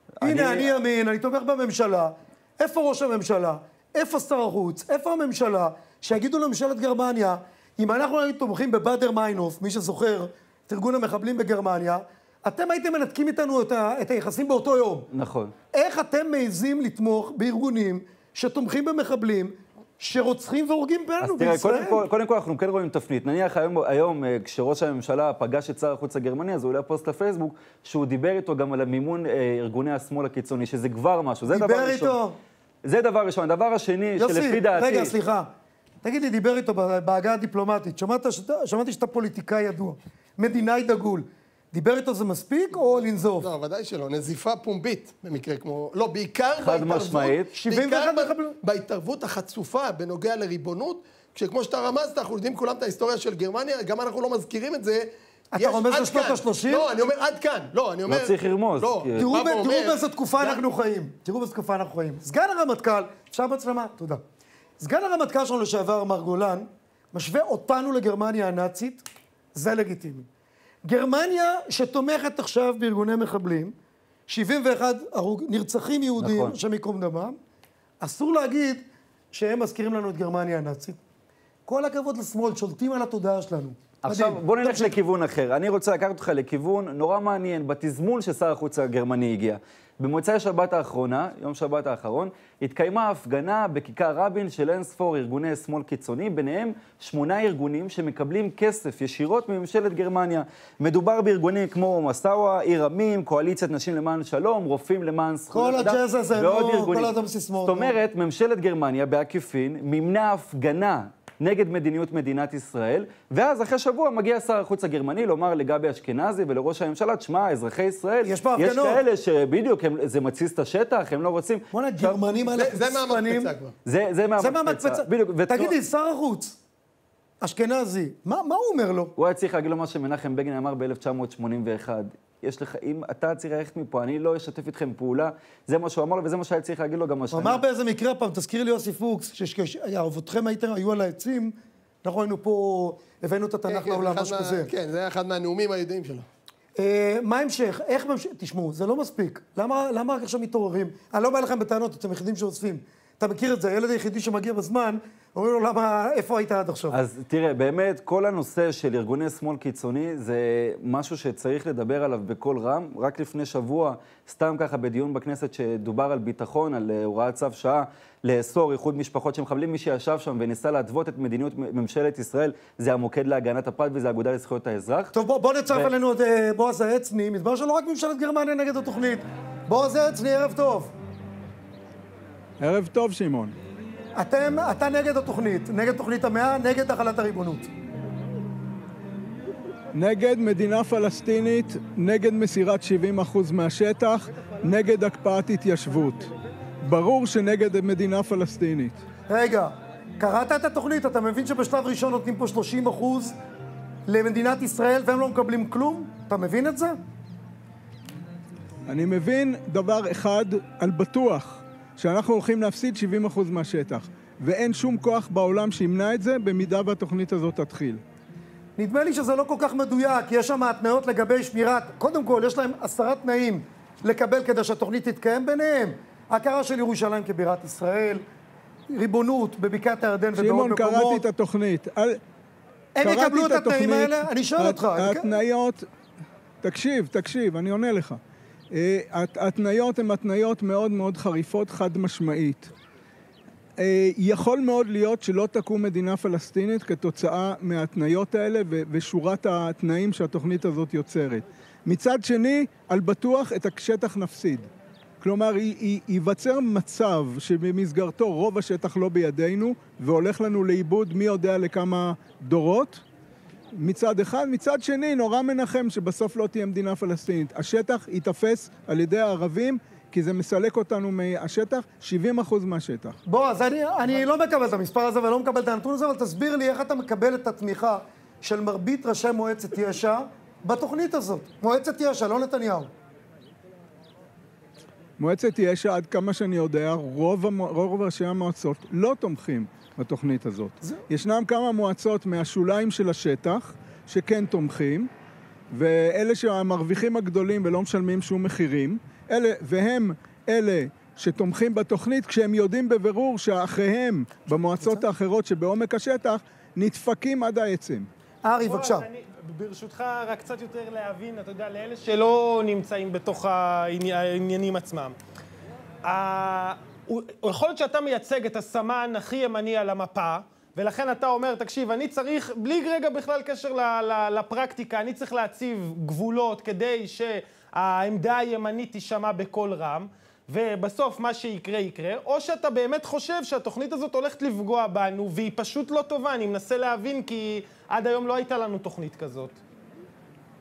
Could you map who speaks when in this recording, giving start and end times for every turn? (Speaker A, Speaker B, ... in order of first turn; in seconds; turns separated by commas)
Speaker A: 0.2-0.7, Speaker B: 0.2-15.1, Speaker A: 15.1-15.5, Speaker B: 15.7-22.0, Speaker A: 21.2-32.2, Speaker B: 31.5-32.4, Speaker A: 32.8-35.1, Speaker B: 34.2-35.5, Speaker B: 36.0-43.5, Speaker C: 43.4-60.6, Speaker A: 46.6-47.5, Speaker B: 47.6-48.6, Speaker B: 55.5-56.9, Speaker A: 58.1-59.2, Speaker B: 59.2-64.2, Speaker B: 64.8-70.3, Speaker B: 70.8-73.7, Speaker B: 74.3-77.4, Speaker A: 76.2-76.6, Speaker B: 78.0-81.0, Speaker B: 81.7-85.0, Speaker A: 84.0-121.7, Speaker B: 105.5-108.0, Speaker B: 118.2-119.0, Speaker B: 121.7-123.5, Speaker C: 122.5-123.7, Speaker A: 123.8-125.7, Speaker B: 124.4-126.6, Speaker B: 127.4-129.1, Speaker A: 129.2-137.6, Speaker B: 137.3-144.7, Speaker C: 143.7-146.2, Speaker B: 146.8-157.0, Speaker A: 156.9-175.1, Speaker B: 175.1-180.9, Speaker D: 182.6-183.6, Speaker B: 184.2-187.7, Speaker D: 189.9-196.3, Speaker D: 196.8-199.0, Speaker B: 199.3-203.3, Speaker B: 204.1-207.0, Speaker D: 208.9-218.0, Speaker B: 218.8-228.2, Speaker B: 228.9-231.2, Speaker D: 230.3-232.2, Speaker B: 232.9-235.3, Speaker D: 233.0-235.9, Speaker D: 236.6-238.2, Speaker D: 238.7-242.7, Speaker D: 243.8-254.7, Speaker D: 255.2-263.0, Speaker D: 263.7-273.2, Speaker B: 273.2-282.9, Speaker D: 285.2-295.1, Speaker D: 295.7-308.1, Speaker B: 304.7-305.1, Speaker B: 308.4-309.1, Speaker E: 308.6-315.2, Speaker E: 316.0-339.6